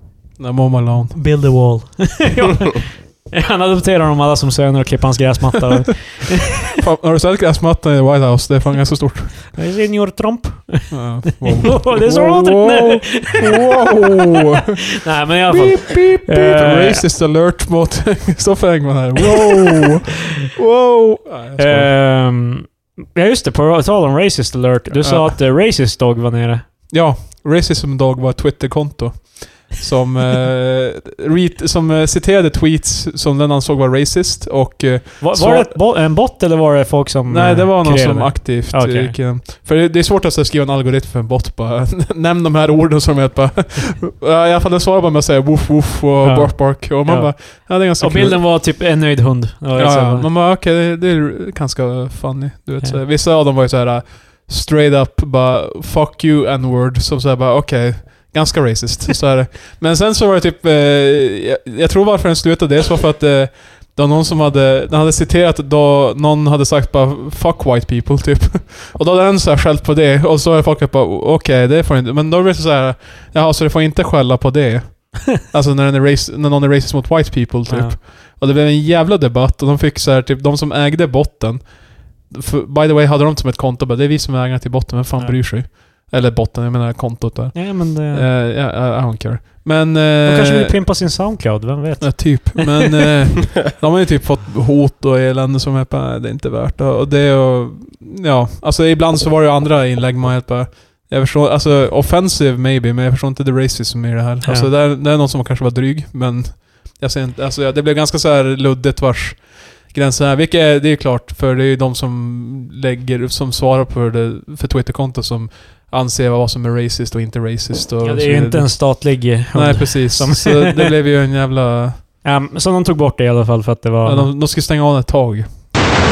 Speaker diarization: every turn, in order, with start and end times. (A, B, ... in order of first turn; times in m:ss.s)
0:00.4-0:01.6 A
0:01.1-0:06.6 B
0:06.6-0:09.5 A
0:09.5-0:13.8 B
0:10.9-0:14.9 A
0:15.0-0:17.0 B
0:15.4-0:21.9 A
0:21.6-0:26.6 B
0:24.9-0:25.4 A
0:26.9-0:35.8 A
0:35.2-0:39.2 B
0:37.3-0:48.5 A
0:46.2-0:50.3 B
0:49.8-1:30.8 A
1:17.7-1:18.0 B
1:27.5-1:28.3 B
1:30.2-1:32.9 B
1:32.0-2:02.0 A
1:44.4-1:44.7 B
1:58.0-2:00.9 B
2:02.2-2:04.3 B
2:04.0-2:05.5 A